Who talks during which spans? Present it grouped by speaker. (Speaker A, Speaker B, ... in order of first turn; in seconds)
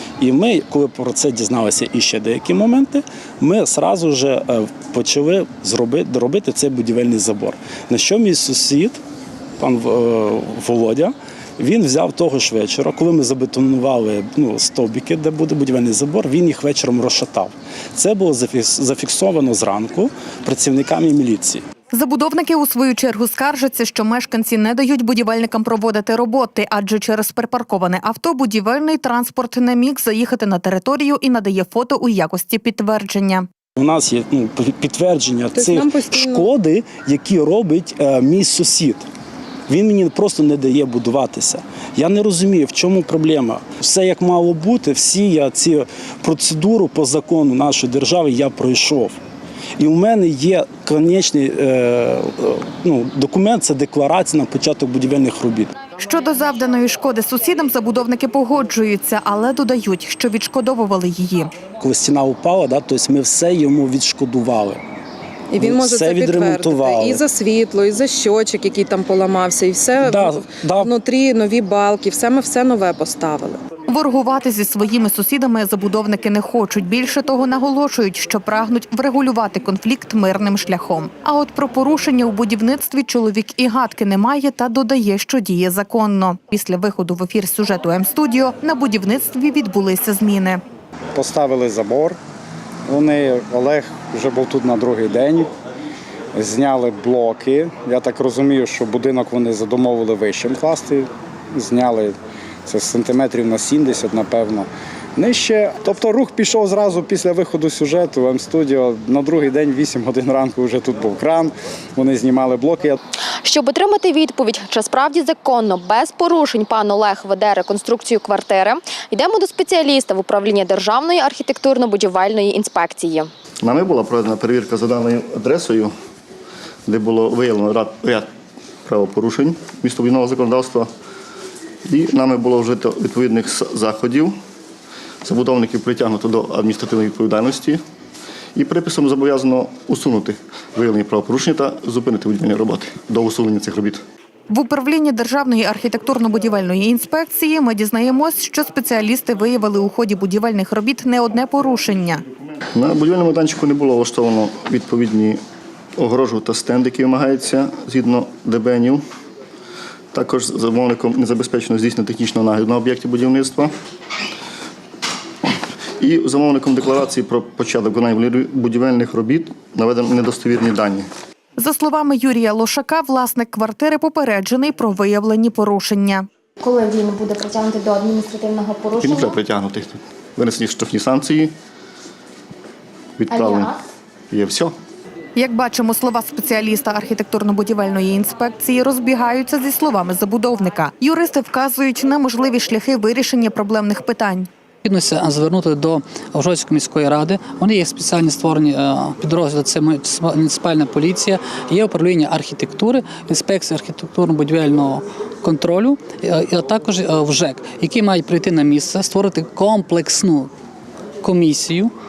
Speaker A: 0.2-9.0, 9.6-21.6, 33.8-39.0, 39.7-49.2, 49.8-55.7, 61.8-64.8, 65.6-67.2, 70.0-70.9
Speaker B: 21.9-33.5, 56.0-61.5, 73.9-90.6, 144.5-152.2, 171.6-176.2, 185.3-194.5
Speaker C: 35.5-36.5, 65.5-73.6
Speaker D: 91.1-92.2, 92.8-95.5, 96.3-113.0
Speaker E: 113.4-123.3, 176.6-179.4, 183.3-183.8
Speaker F: 123.6-125.9, 126.8-128.3, 128.8-130.9, 131.8-134.3, 135.2-137.8, 138.5-144.0, 152.7-155.4, 156.0-159.0, 160.1-163.7, 166.0-171.1, 179.0-181.5, 183.2-183.7, 184.3-184.7
Speaker G: 194.8-210.5, 211.2-211.9